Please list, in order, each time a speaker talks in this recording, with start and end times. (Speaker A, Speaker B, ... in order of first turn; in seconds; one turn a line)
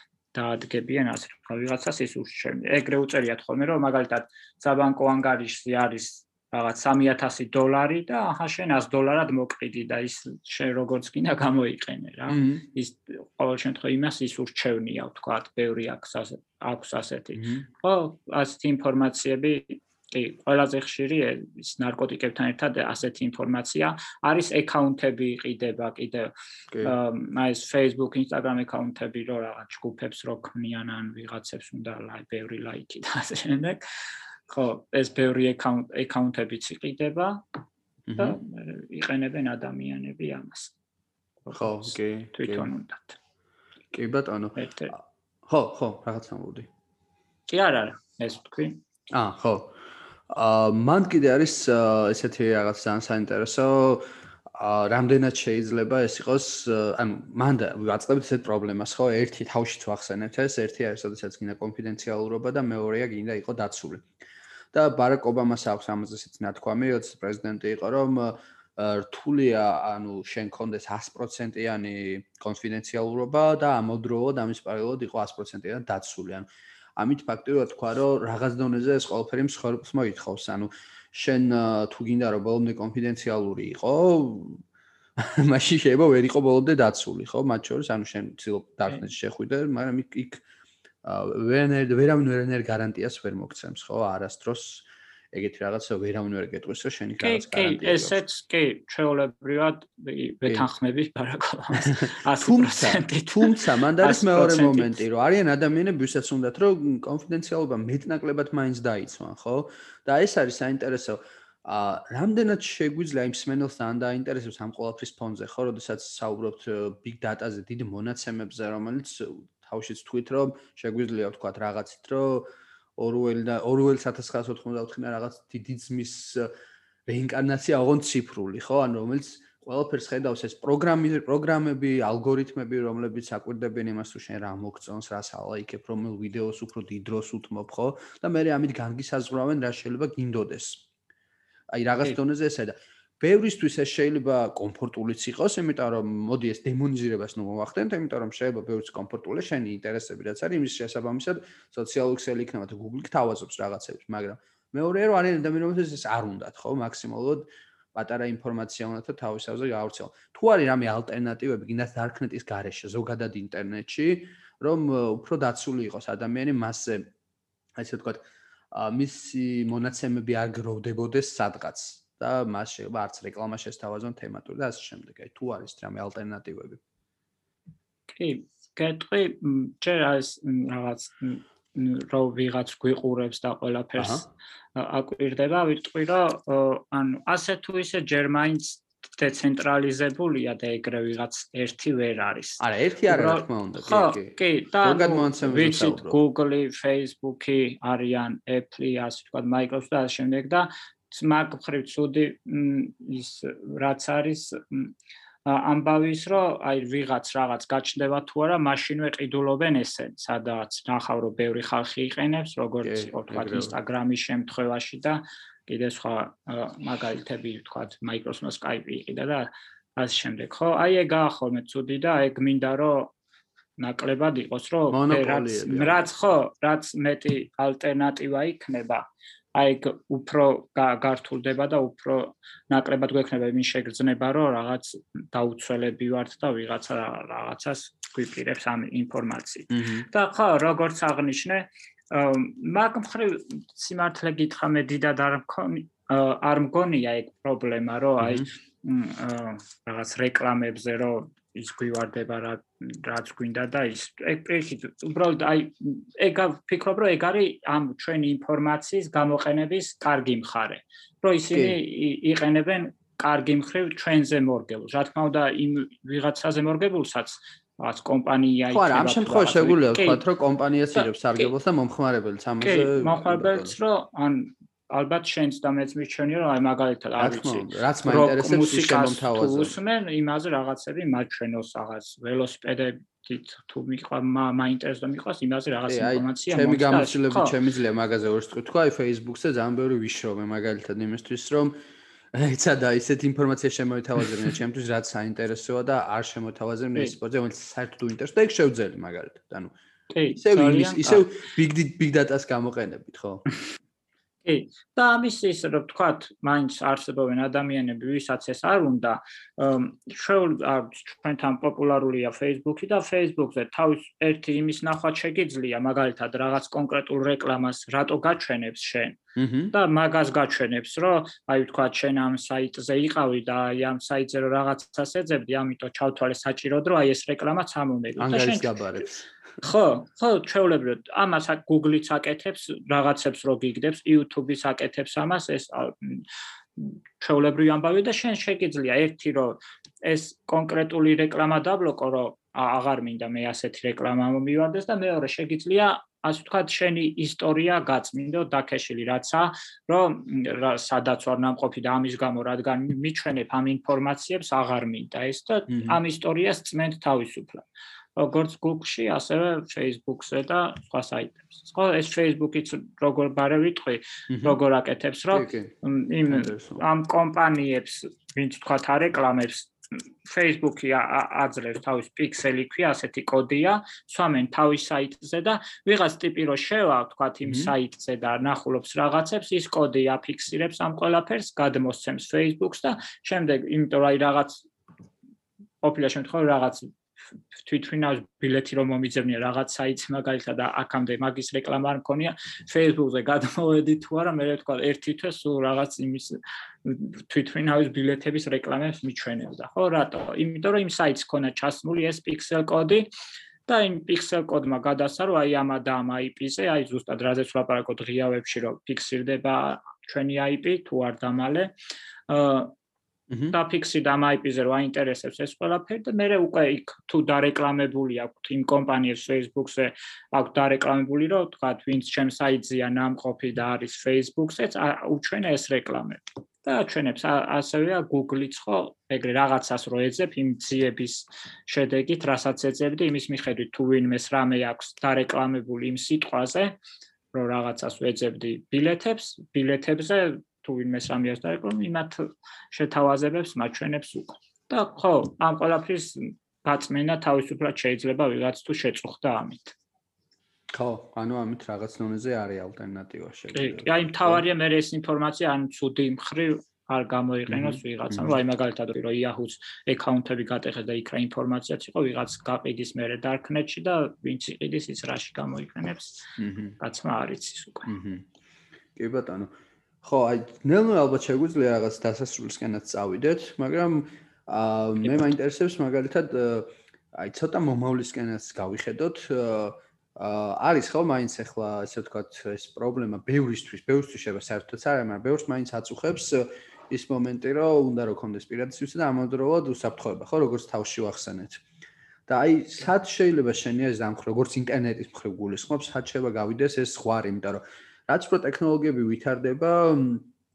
Speaker A: 0.3-33.8
Speaker B: 12.3-12.6
Speaker B: 17.3-17.6
Speaker A: 34.5-37.4
Speaker B: 38.1-38.4
Speaker A: 38.2-40.7
Speaker A: 41.5-43.2
Speaker B: 41.5-42.7
Speaker B: 43.9-46.7
Speaker A: 44.5-44.9
Speaker A: 47.5-48.8
Speaker B: 49.1-49.7
Speaker B: 50.3-64.1
Speaker B: 64.7-84.6
Speaker B: 85.2-90.4
Speaker B: 91.0-98.2
Speaker A: 97.2-105.0
Speaker B: 101.8-126.5
Speaker B: 127.1-140.8
Speaker B: 141.7-167.1
Speaker B: 167.8-176.8
Speaker A: 178.1-204.9
Speaker B: 184.0-184.2
Speaker B: 192.6-196.2
Speaker A: 205.4-223.1
Speaker B: 212.8-213.7
Speaker A: 223.8-270.2
Speaker B: 224.9-226.1
Speaker B: 239.7-240.1
Speaker B: 248.2-248.4
Speaker B: 261.5-261.8
Speaker B: 268.7-273.7
Speaker A: 270.9-271.5
Speaker A: 272.6-287.5
Speaker B: 277.2-279.7
Speaker B: 285.9-291.7
Speaker B: 292.3-299.7
Speaker A: 300.1-301.2
Speaker B: 300.3-303.4
Speaker A: 304.4-319.2
Speaker B: 319.4-319.7
Speaker A: 319.7-328.7
Speaker B: 328.2-329.3
Speaker A: 329.6-336.2
Speaker A: 336.8-384.6
Speaker B: 355.7-356.0
Speaker B: 364.3-364.6
Speaker B: 365.3-365.7
Speaker B: 366.3-366.8
Speaker B: 377.4-377.7
Speaker A: 385.8-387.0
Speaker A: 387.5-403.1
Speaker A: 403.7-411.7
Speaker A: 412.3-412.7
Speaker A: 413.5-436.8
Speaker A: 437.3-449.7
Speaker B: 450.7-454.4
Speaker A: 453.5-467.9
Speaker B: 457.5-458.4
Speaker B: 466.4-466.8
Speaker B: 467.9-468.3
Speaker B: 468.9-469.5
Speaker B: 470.0-491.6
Speaker B: 492.3-500.3